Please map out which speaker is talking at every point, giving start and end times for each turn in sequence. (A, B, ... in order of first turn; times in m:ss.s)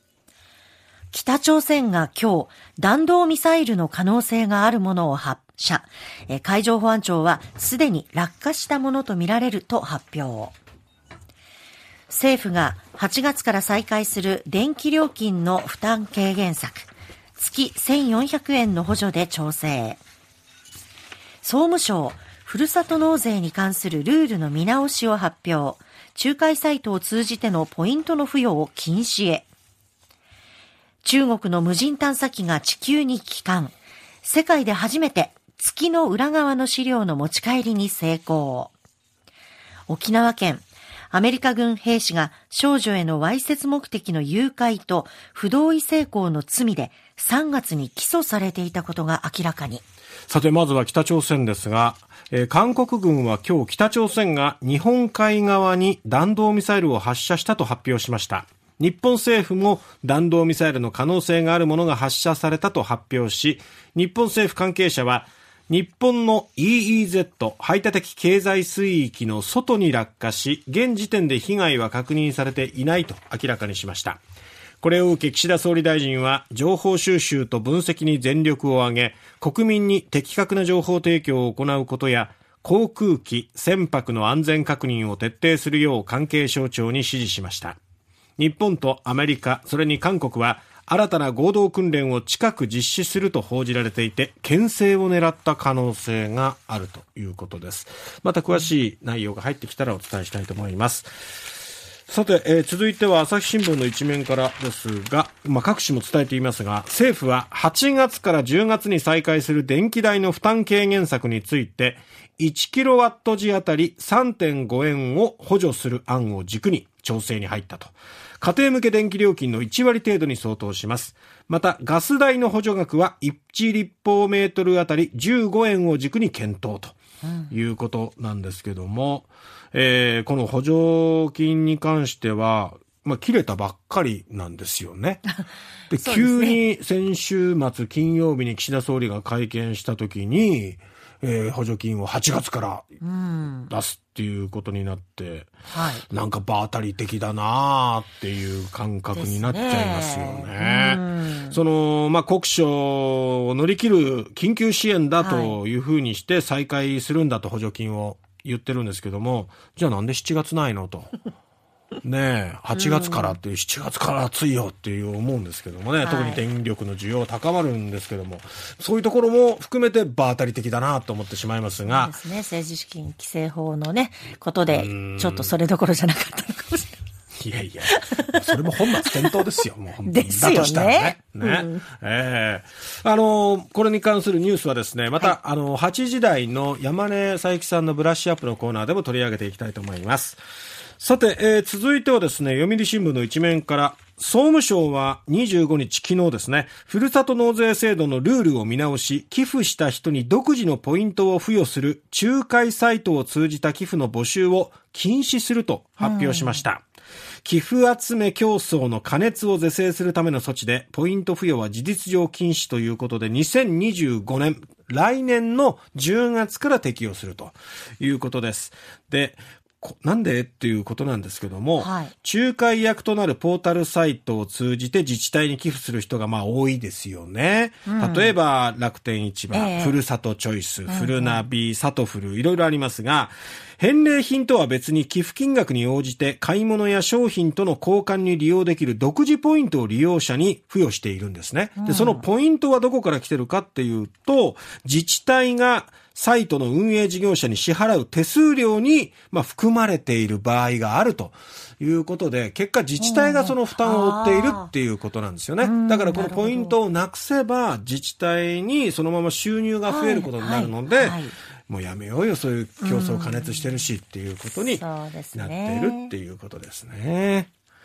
0:01.1-0:10.5 A
0:12.1-0:20.0 A
0:21.4-0:29.5 A
0:31.0-0:38.7 A
0:39.9-0:49.8 A
0:50.3-1:14.2 B
1:14.8-1:27.8 B
1:28.4-1:41.1 B
1:42.1-2:07.0 B
2:07.2-2:07.5 A
2:07.5-2:15.2 B
2:15.9-2:22.9 B
2:16.0-2:16.6 A
2:23.0-2:23.7 A
2:23.7-2:25.5 B
2:25.7-2:26.0 A
2:26.1-2:41.1 B
2:29.1-2:31.6 A
2:35.2-2:35.6 A
2:42.0-2:52.1 B
2:42.7-2:43.4 A
2:46.0-2:46.4 A
2:51.8-2:57.0 A
2:54.7-2:55.5 B
2:57.4-3:10.4 B
2:57.8-2:59.4 A
3:00.0-3:01.8 A
3:11.0-3:26.8 B
3:26.0-3:26.6 A
3:27.4-4:27.5 B
3:41.8-3:42.1 A
3:47.8-3:48.4 A
3:49.5-3:50.0 A
3:50.9-3:51.4 A
4:01.8-4:02.2 A
4:13.0-4:14.7 A
4:15.6-4:16.8 A
4:19.8-4:21.3 A
4:22.8-4:23.9 A
4:24.5-4:26.1 A